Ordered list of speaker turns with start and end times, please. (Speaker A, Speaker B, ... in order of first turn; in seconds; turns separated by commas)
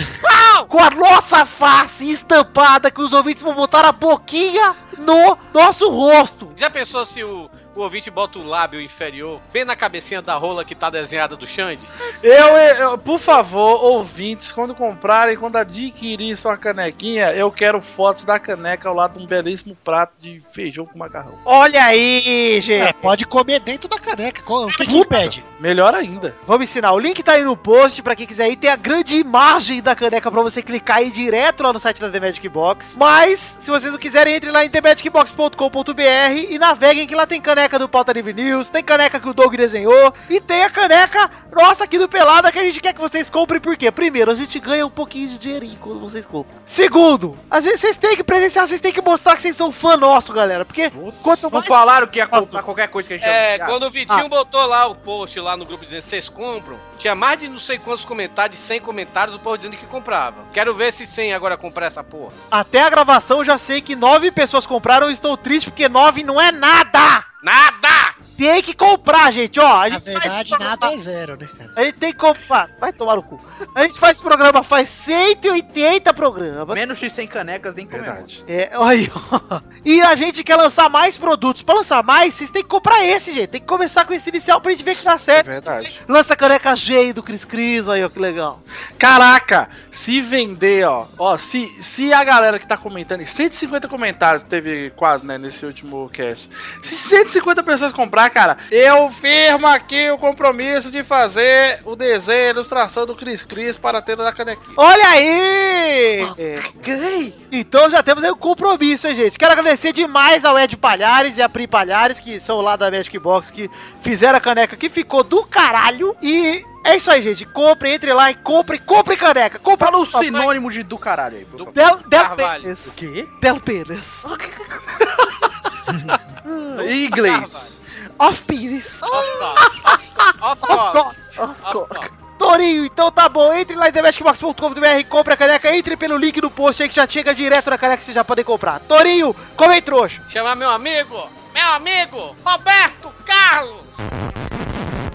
Speaker A: 0.7-6.5, Speaker B: 6.5-11.9, Speaker C: 12.2-21.4, Speaker A: 21.4-23.1, Speaker D: 22.7-25.4, Speaker A: 24.7-25.3, Speaker C: 25.6-26.4, Speaker A: 26.5-51.8, Speaker E: 51.0-53.9, Speaker A: 52.3-52.6, Speaker B: 53.2-62.3, Speaker A: 62.5-67.2, Speaker B: 67.4-68.2, Speaker A: 68.4-70.9, Speaker D: 69.9-71.7, Speaker A: 71.8-76.8, Speaker E: 76.7-78.3, Speaker C: 77.9-78.4, Speaker A: 78.5-88.6, Speaker C: 85.3-86.0, Speaker C: 89.0-104.8, Speaker A: 104.8-106.8, Speaker A: 107.5-120.5, Speaker E: 119.8-121.8, Speaker B: 121.5-122.7, Speaker A: 121.7-124.2, Speaker E: 122.8-123.3, Speaker E: 124.3-125.1, Speaker A: 126.5-126.9, Speaker E: 126.7-127.7, Speaker B: 126.8-127.7, Speaker A: 128.2-131.5, Speaker E: 129.1-129.6, Speaker B: 129.1-132.1, Speaker E: 131.7-132.0, Speaker A: 132.4-140.2, Speaker B: 140.3-144.0